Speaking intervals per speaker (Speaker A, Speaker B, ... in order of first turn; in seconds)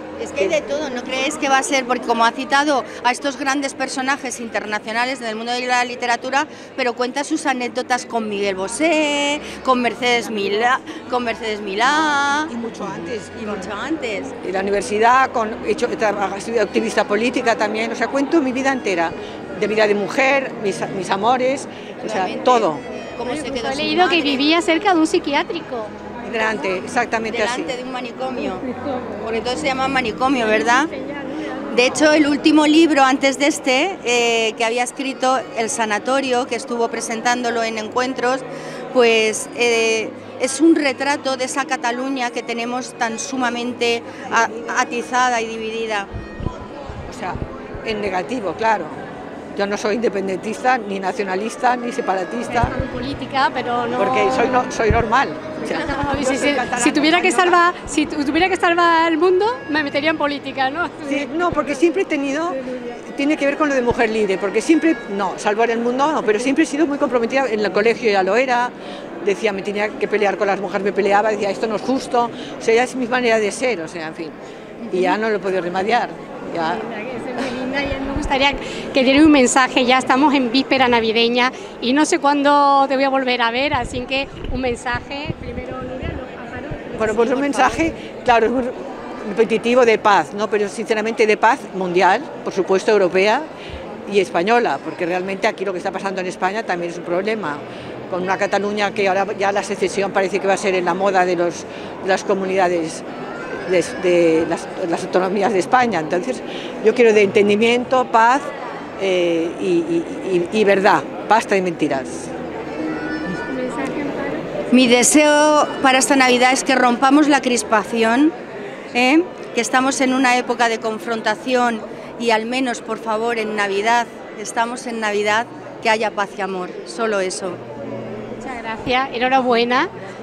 Speaker A: 0.2-12.5, 13.4-14.3, 22.0-24.4, 27.3-28.6, 29.2-30.9, 31.7-46.1, 114.7-118.3, 118.9-127.6
Speaker B: 12.5-13.7, 14.4-22.8, 26.2-27.8, 47.1-49.0, 49.5-52.8, 54.0-57.6, 61.0-74.4, 74.9-76.8, 86.9-93.5, 94.1-112.3
Speaker C: 23.3-25.9, 52.5-54.5, 55.6-61.3, 76.6-87.9, 113.5-114.4, 128.4-129.9